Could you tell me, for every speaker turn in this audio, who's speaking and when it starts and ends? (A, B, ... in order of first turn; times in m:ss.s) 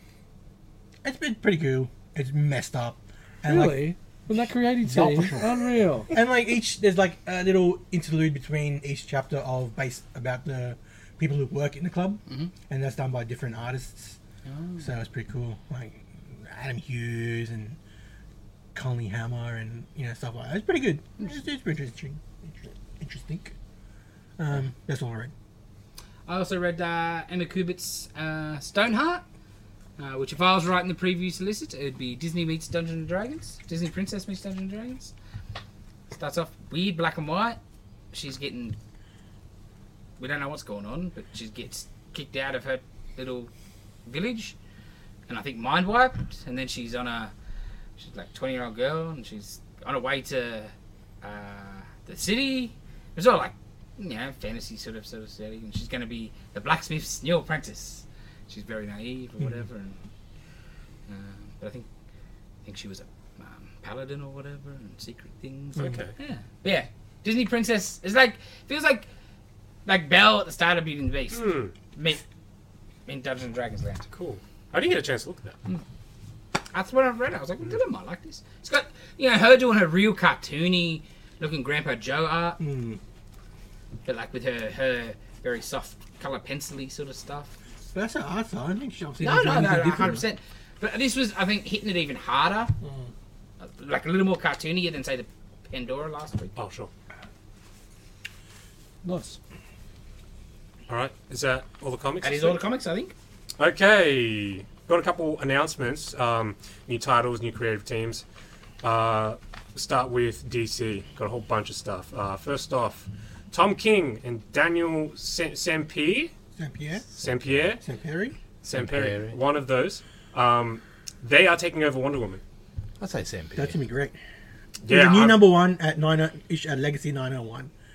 0:01.0-0:03.9 A
0:03.4-0:06.1 B
0:04.8-0:05.5 A
0:06.1-0:14.2 A
0:14.4-0:14.9 C
0:14.8-0:17.8 A
0:18.7-0:23.5 A
0:24.4-0:25.3 A
0:26.3-0:29.2 C
0:30.0-0:35.1 C
0:36.1-0:37.6 C
0:38.1-0:38.8 C
0:40.2-0:43.5 C
0:44.0-0:44.6 C
0:45.3-0:47.3 C
0:48.0-1:00.0 C
1:01.1-1:01.9 C
1:02.6-1:09.1 C
1:05.8-1:06.1 D
1:09.9-1:12.2 C
1:11.3-1:11.7 D
1:13.0-1:14.1 C
1:14.1-1:15.6 D
1:16.7-1:22.6 C
1:22.6-1:23.0 A
1:24.0-1:27.5 C
1:27.9-1:30.2 A
1:29.2-1:32.7 C
1:32.8-1:33.1 A
1:33.6-1:36.5 C
1:36.6-1:36.9 D
1:39.0-1:39.4 B
1:40.9-1:42.6 D
1:42.2-1:43.1 C
1:43.6-1:48.2 D
1:48.8-1:56.3 D
1:56.6-1:57.0 A
1:57.2-1:57.8 D
1:57.2-1:57.7 E
1:57.8-1:58.3 A
1:58.6-2:02.4 D
1:58.7-1:59.4 E
2:03.0-2:03.8 E
2:03.6-2:04.2 A
2:04.8-2:05.5 D
2:04.9-2:07.7 A